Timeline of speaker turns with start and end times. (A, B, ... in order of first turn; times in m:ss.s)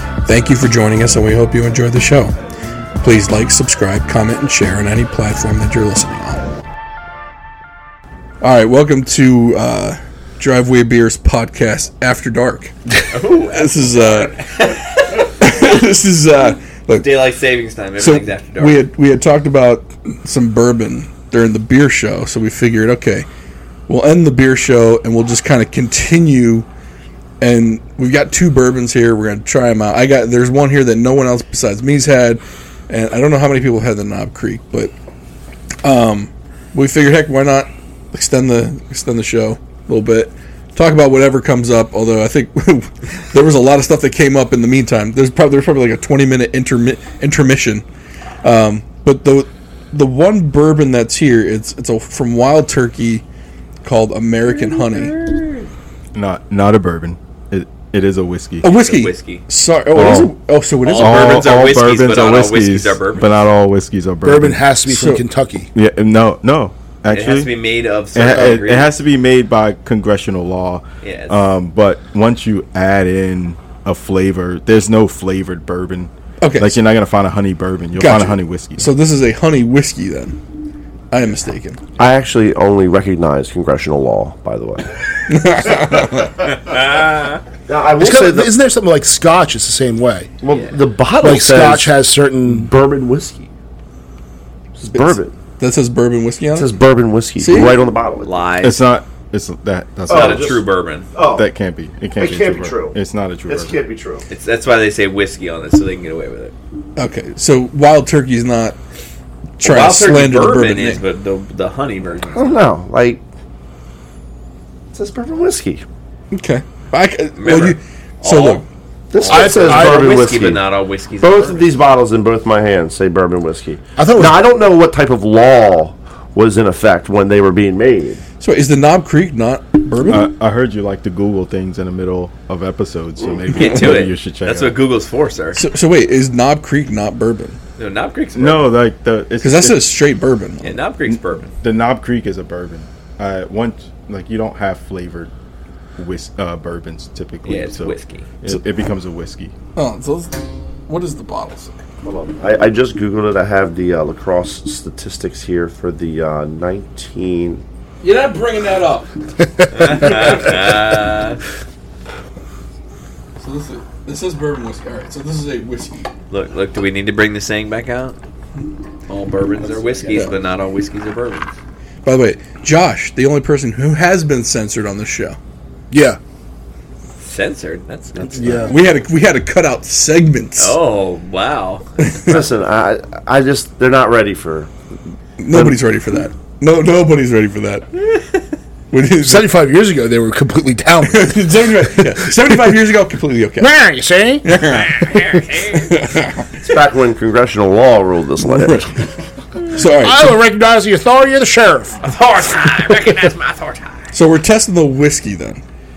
0:00.2-0:02.3 A
0:03.0-0:06.4 A
0:08.4-0:13.0 A
0:13.1-0:15.7 B
0:13.5-0:14.3 A
0:15.4-0:17.1 A
0:16.9-0:18.8 B
0:18.0-0:23.3 A
0:23.9-0:26.7 A
0:27.4-0:34.9 A
0:35.8-0:47.8 A
0:48.4-0:53.2 A
0:53.8-0:55.2 A
0:54.5-0:55.7 B
0:56.1-0:58.7 C
0:58.6-1:01.5 A
0:58.6-0:59.4 B
1:00.0-1:00.3 C
1:00.8-1:03.3 B
1:01.0-1:04.6 C
1:04.2-1:05.7 D
1:04.9-1:05.2 A
1:05.7-1:07.5 C
1:07.1-1:08.9 B
1:08.1-1:18.9 C
1:11.0-1:11.4 B
1:16.4-1:16.8 A
1:18.0-1:20.4 A
1:21.1-1:21.8 A
1:22.0-1:24.9 E
1:25.3-1:26.5 A
1:26.5-1:27.4 B
1:27.6-1:28.5 E
1:28.0-1:30.3 D
1:30.4-1:33.5 E
1:30.5-1:30.8 B
1:31.2-1:32.7 D
1:34.8-1:35.3 E
1:34.9-1:36.8 A
1:36.6-1:38.4 E
1:37.4-1:37.8 A
1:38.2-1:38.8 B
1:38.6-1:40.6 C
1:40.1-1:40.6 E
1:40.1-1:41.1 B
1:41.1-1:41.5 E
1:41.3-1:43.8 C
1:42.2-1:44.2 E
1:44.3-1:46.5 B
1:47.0-1:48.8 A
1:49.6-1:51.0 A
1:49.6-1:52.7 B
1:52.3-1:53.2 E
1:54.9-1:55.8 E
1:56.3-1:58.6 A
1:57.4-2:01.7 B
1:59.1-2:00.6 E
1:59.2-2:00.2 D
2:01.2-2:08.2 E
2:04.0-2:04.4 D
2:08.4-2:10.3 A
2:10.1-2:14.8 C
2:13.3-2:14.0 E
2:13.5-2:15.6 B
2:15.5-2:17.6 A
2:17.8-2:18.7 B
2:18.3-2:19.9 C
2:19.4-2:20.8 A
2:20.6-2:21.5 B
2:21.1-2:25.3 C
2:26.0-2:29.5 C
2:27.4-2:28.3 B
2:29.8-2:31.8 A
2:32.0-2:37.6 E
2:38.0-2:39.1 A
2:39.4-2:40.3 D
2:39.7-2:41.4 B
2:43.4-2:46.1 A
2:46.3-2:48.2 B
2:49.1-2:51.5 B
2:52.0-2:55.4 A
2:55.9-2:56.2 D
2:57.2-2:58.7 B
2:58.2-2:58.7 E
2:58.3-2:58.8 D
2:58.6-3:00.8 A
3:00.6-3:02.4 B
3:02.0-3:02.3 A
3:02.2-3:04.7 E
3:05.4-3:07.9 A
3:08.0-3:08.4 B
3:08.9-3:09.5 A
3:09.2-3:12.5 D
3:11.1-3:13.7 A
3:13.6-3:15.4 D
3:14.4-3:15.1 A
3:14.7-3:16.0 B
3:15.7-3:16.5 A
3:16.6-3:18.9 E
3:18.4-3:19.0 A
3:19.7-3:20.3 A
3:19.8-3:22.0 D
3:22.0-3:24.1 B
3:24.1-3:25.6 A